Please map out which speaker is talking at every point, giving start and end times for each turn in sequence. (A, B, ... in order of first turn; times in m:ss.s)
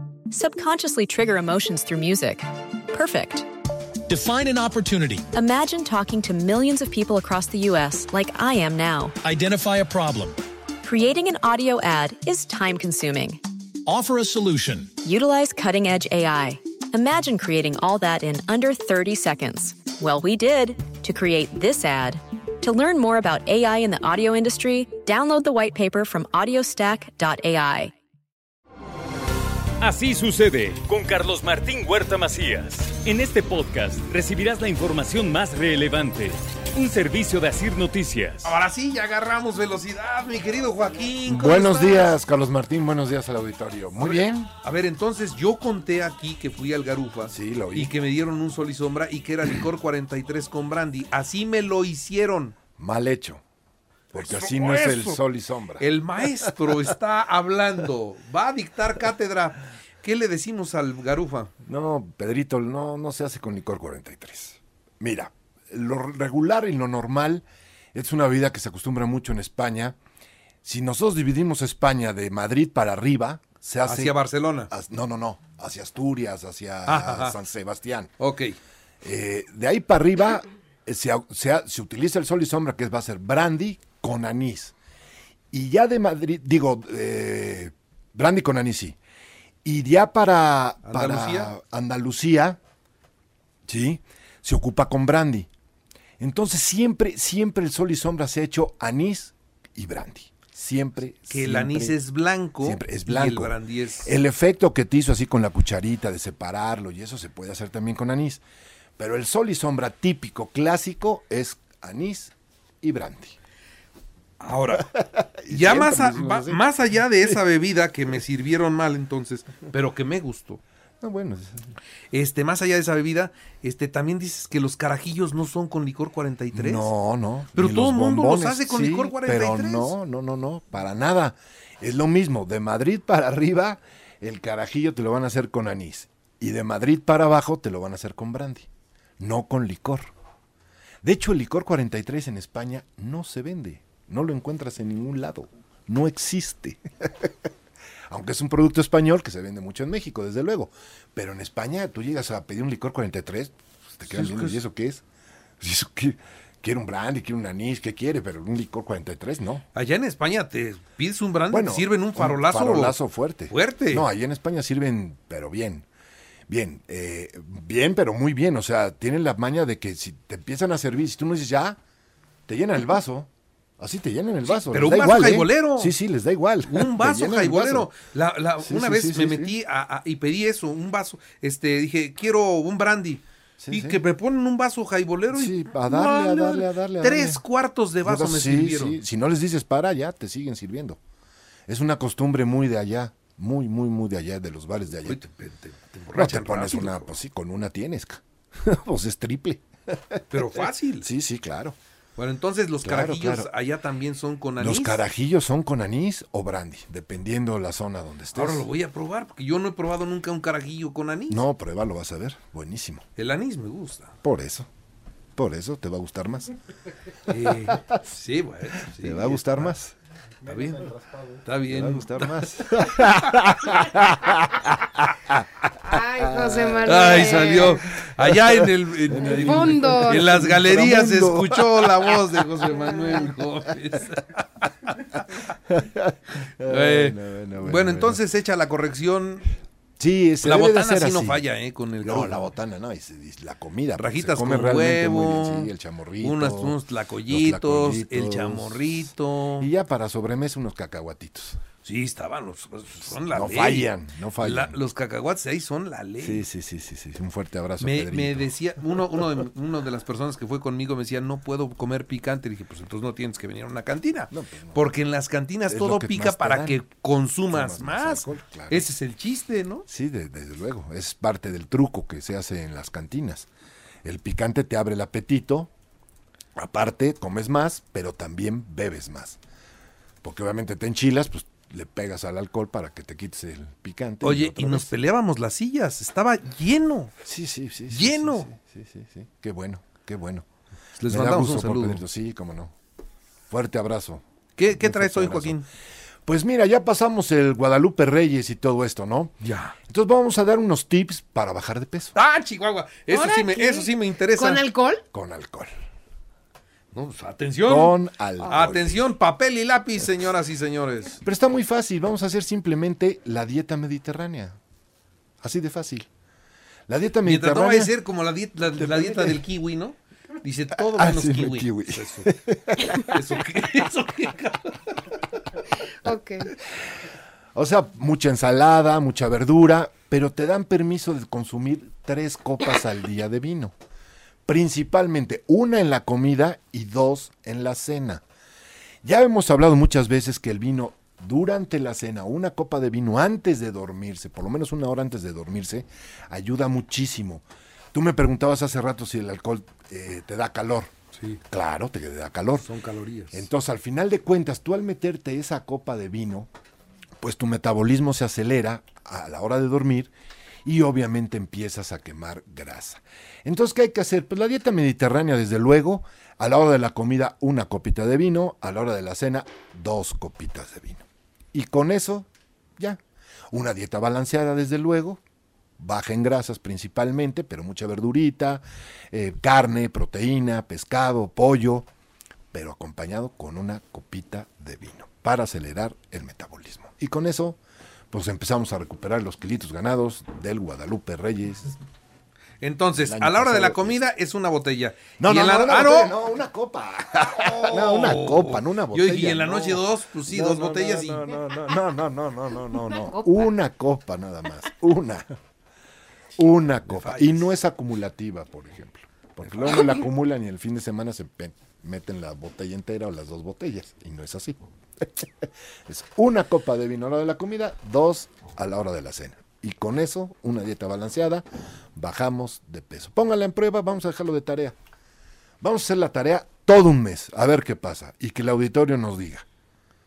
0:00.3-0:03.5 A
0:04.0-0:05.3 B
0:05.3-0:09.1 A
0:09.2-0:10.4 B
0:10.8-0:13.4 A
0:13.8-0:14.9 B
0:15.0-0:27.9 A
0:29.8-0:38.5 C
0:38.4-0:42.2 D
0:41.2-0:44.5 E
0:44.0-0:52.6 D
0:47.3-0:47.9 E
0:52.8-0:53.4 E
0:54.1-0:56.5 E
0:54.1-0:55.2 D
0:55.8-1:01.5 D
1:01.6-1:10.0 E
1:10.6-1:14.2 E
1:13.8-1:14.7 D
1:14.7-1:18.1 E
1:16.8-1:17.4 D
1:18.2-1:18.6 D
1:19.0-1:24.7 E
1:25.5-1:29.0 E
1:29.6-1:32.6 E
1:30.8-1:31.5 D
1:33.7-1:35.5 E
1:36.2-1:42.0 E
1:41.3-1:44.1 D
1:42.6-1:48.4 E
1:49.0-1:53.3 E
1:54.4-1:54.9 D
1:54.8-1:56.6 E
1:55.5-2:00.6 D
2:01.0-2:01.7 E
2:02.1-2:06.9 D
2:06.5-2:18.7 E
2:07.5-2:09.9 D
2:19.2-2:20.1 E
2:21.0-2:27.3 E
2:28.1-2:35.0 E
2:34.0-2:34.6 D
2:35.6-2:39.6 E
2:39.7-2:44.0 D
2:41.5-2:45.9 E
2:46.5-2:51.8 E
2:52.5-2:57.9 E
2:54.5-2:56.0 D
2:56.6-3:09.0 D
2:58.6-2:59.6 E
3:03.6-3:04.0 E
3:05.3-3:07.4 E
3:08.0-3:11.0 E
3:11.7-3:15.2 E
3:15.0-3:17.1 D
3:16.1-3:20.4 E
3:20.3-3:21.1 D
3:21.0-3:21.8 E
3:22.2-3:25.0 D
3:22.8-3:23.5 E
3:24.6-3:28.7 E
3:28.3-3:31.4 D
3:31.3-3:33.0 E
3:33.2-3:34.1 D
3:34.2-3:34.7 E
3:35.4-3:36.5 E
3:37.3-3:39.7 D
3:39.0-3:39.9 E
3:40.4-3:43.5 D
3:41.6-3:47.0 E
3:45.9-3:47.8 F
3:46.8-3:55.2 D
3:48.7-3:52.2 E
3:49.2-3:50.3 F
3:55.7-3:58.2 E
3:56.7-3:59.5 D
4:00.0-4:01.4 E
4:00.4-4:02.5 D
4:02.0-4:11.6 E
4:04.0-4:09.7 D
4:11.8-4:16.4 D
4:13.3-4:14.8 E
4:16.2-4:18.6 E
4:17.8-4:29.9 D
4:24.3-4:24.9 E
4:25.7-4:26.8 E
4:27.5-4:28.9 E
4:29.9-4:33.5 E
4:34.0-4:35.7 E
4:36.6-4:39.4 E
4:40.2-4:44.9 E
4:44.2-4:47.1 D
4:47.2-4:50.4 E
4:47.9-4:48.5 D
4:51.0-4:52.0 D
4:51.1-4:52.7 E
4:53.5-4:55.6 E
4:54.6-4:55.7 D
4:56.2-5:02.1 E
4:59.4-4:59.7 D
5:02.1-5:04.7 D
5:03.1-5:05.0 F
5:05.1-5:05.7 E
5:06.9-5:11.2 D
5:07.6-5:09.1 E
5:11.2-5:14.6 E
5:15.4-5:16.1 E
5:16.9-5:17.9 E
5:17.2-5:25.2 D
5:18.9-5:19.3 E
5:20.9-5:23.2 E
5:26.0-5:26.5 F
5:27.5-5:33.7 E
5:34.4-5:38.2 E
5:39.0-5:50.9 E
5:51.2-5:51.4 D
5:51.5-5:52.7 E
5:52.6-5:53.5 D
5:53.3-5:56.5 E
5:57.2-6:00.1 E
6:00.6-6:13.0 E
6:13.5-6:15.2 E
6:15.8-6:21.9 E
6:22.5-6:27.6 E
6:28.1-6:31.8 E
6:32.6-6:36.2 D
6:33.0-6:34.0 E
6:35.2-6:45.3 E
6:37.2-6:41.2 D
6:46.4-7:04.8 E
6:46.9-6:47.5 D
6:49.4-6:49.7 D
7:05.6-7:09.4 E